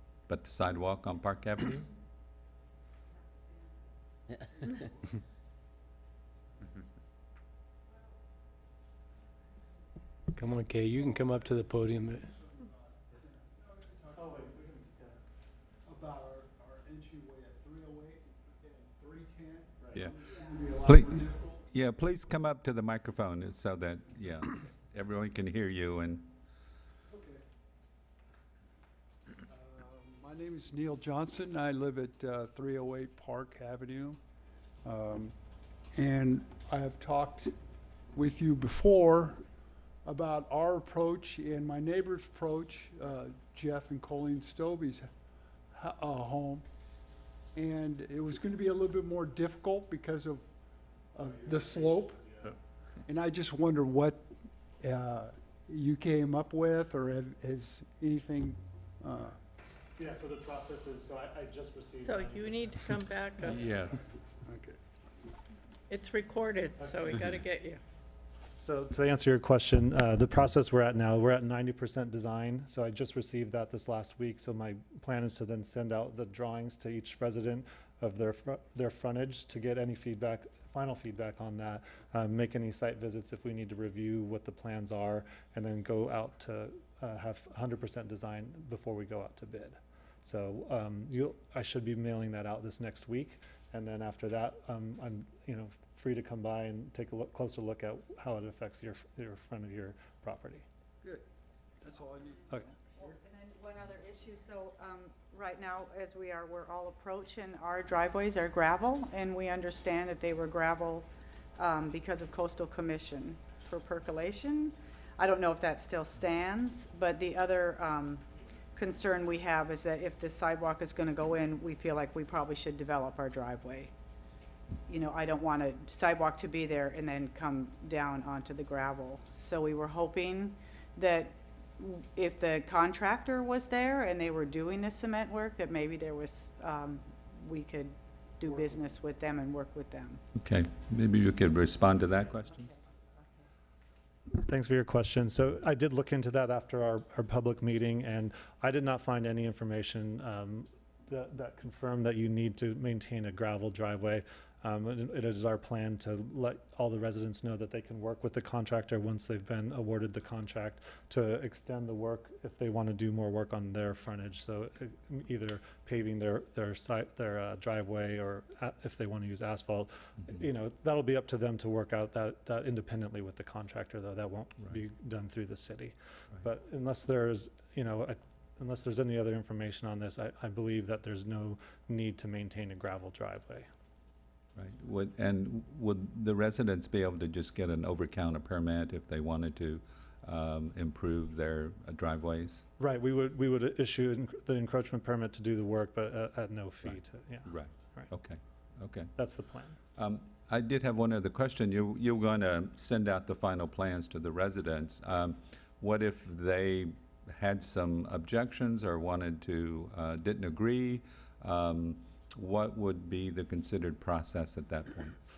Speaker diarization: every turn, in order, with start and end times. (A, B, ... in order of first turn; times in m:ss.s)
0:00.3-0:01.9 A
0:10.3-0:12.3 B
0:12.2-0:14.4 C
0:14.1-0:15.2 D
0:15.8-0:21.6 C
0:20.8-0:26.3 A
0:27.1-0:27.4 C
0:29.5-0:34.2 C
0:34.8-0:37.5 C
0:38.1-0:39.5 C
0:40.0-0:46.7 C
0:47.5-0:52.3 C
0:51.2-0:52.5 D
0:53.0-0:59.4 C
1:00.0-1:04.0 D
1:02.0-1:03.8 E
1:03.5-1:03.9 A
1:04.4-1:04.8 C
1:05.9-1:07.8 E
1:08.6-1:40.6 D
1:41.8-1:43.2 C
1:43.4-2:03.9 F
2:04.9-2:20.2 F
2:20.3-2:22.7 A
2:24.3-3:03.7 D
3:04.6-3:12.6 A
3:12.8-3:18.1 D
3:16.8-3:19.1 A
3:19.2-3:19.8 D
3:19.9-3:35.2 A